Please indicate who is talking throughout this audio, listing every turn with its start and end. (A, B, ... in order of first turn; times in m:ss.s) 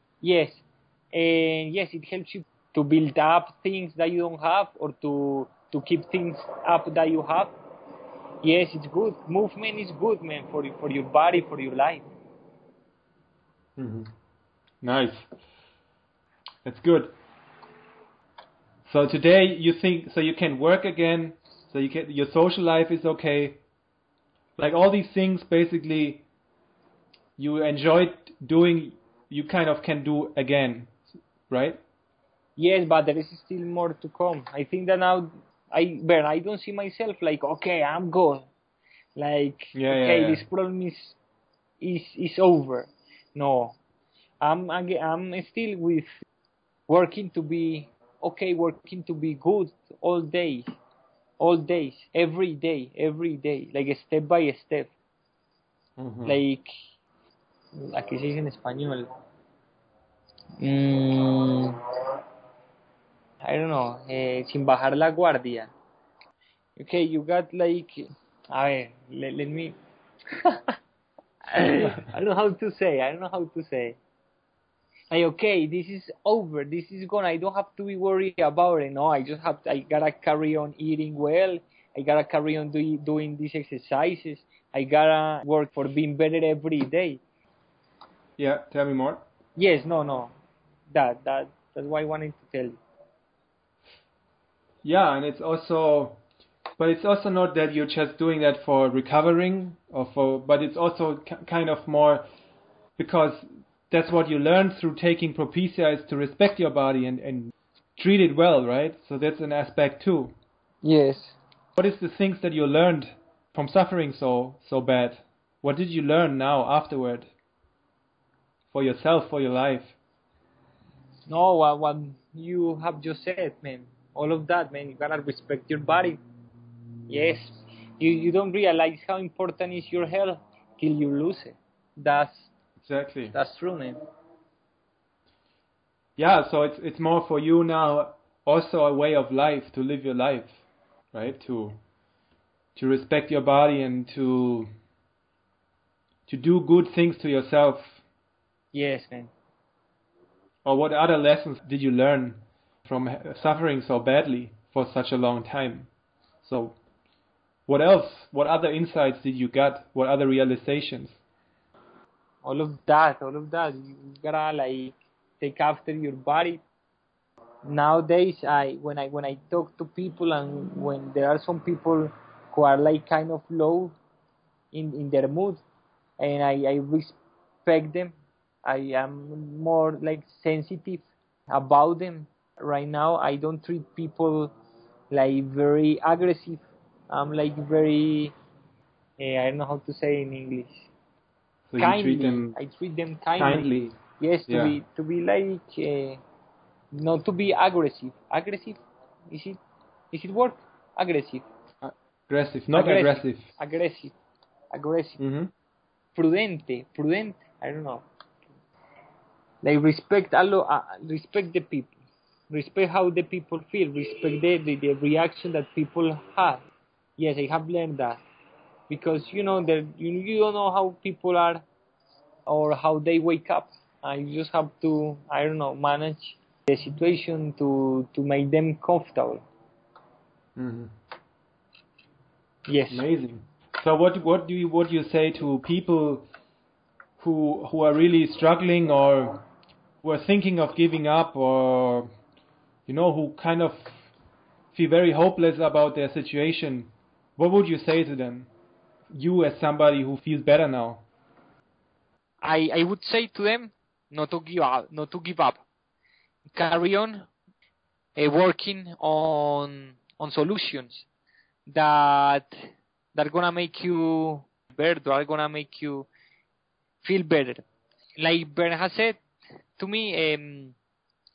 0:00.2-0:07.5 A
0:08.4-0:12.0 A
0:13.8-0:14.1 B
0:14.8-0:15.3 B
0:16.6-0:17.1 B
0:18.8-0:23.6 B
0:24.6-0:26.2 B
0:27.4-0:30.9 B
0:31.5-0:31.8 B
0:32.6-0:38.5 A
0:39.2-0:41.2 A
0:39.7-0:40.4 B
0:41.8-0:43.7 A
0:44.4-0:46.1 A
0:46.9-0:50.6 A
0:51.4-0:54.9 A
0:56.0-0:56.4 B
0:56.2-0:56.7 A
0:57.8-0:59.1 A
1:00.6-1:01.8 A
1:03.4-1:05.7 A
1:06.8-1:08.0 A
1:08.5-1:09.7 A
1:10.4-1:10.7 A
1:11.5-1:14.0 A
1:15.1-1:27.2 A
1:28.4-1:29.2 B
1:29.6-1:30.3 A
1:30.9-1:32.8 A
1:34.8-1:36.2 B
1:36.8-1:42.2 B
1:43.0-1:50.4 B
1:50.8-1:51.4 A
1:51.8-1:57.3 B
1:58.7-2:00.0 B
2:01.3-2:06.2 A
2:07.1-2:12.5 A
2:12.8-2:13.4 B
2:13.3-2:14.0 A
2:16.2-2:20.6 B
2:21.1-2:21.8 B
2:22.7-2:24.7 B
2:26.3-2:28.0 B
2:28.7-2:29.3 A
2:30.6-2:35.9 B
2:36.4-2:36.8 B
2:37.7-2:41.2 B
2:42.4-2:46.6 A
2:47.6-2:53.9 A
2:54.7-2:55.6 A
2:56.2-2:58.1 A
2:58.6-3:04.5 A
3:05.1-3:08.3 A
3:09.2-3:10.9 A
3:11.7-3:12.6 B
3:11.8-3:16.2 A
3:13.4-3:14.7 B
3:16.9-3:19.6 A
3:20.1-3:21.4 A
3:21.8-3:23.5 B
3:22.7-3:24.1 A
3:24.7-3:25.2 A
3:25.2-3:25.5 B
3:26.1-3:28.0 A
3:29.6-3:31.9 A
3:32.5-3:36.6 A
3:37.2-3:38.2 A
3:38.9-3:41.6 A
3:42.5-3:49.4 A
3:50.6-3:50.9 B
3:52.7-3:53.0 A
3:52.9-3:56.3 B
3:57.2-3:59.4 B
4:00.0-4:02.1 B
4:02.9-4:04.1 B
4:04.7-4:08.5 B
4:09.1-4:11.0 B
4:12.4-4:15.6 A
4:16.5-4:17.3 A
4:18.2-4:21.0 A
4:21.7-4:22.5 A
4:23.1-4:26.1 A
4:27.0-4:27.6 A
4:28.2-4:29.2 A
4:29.8-4:30.7 A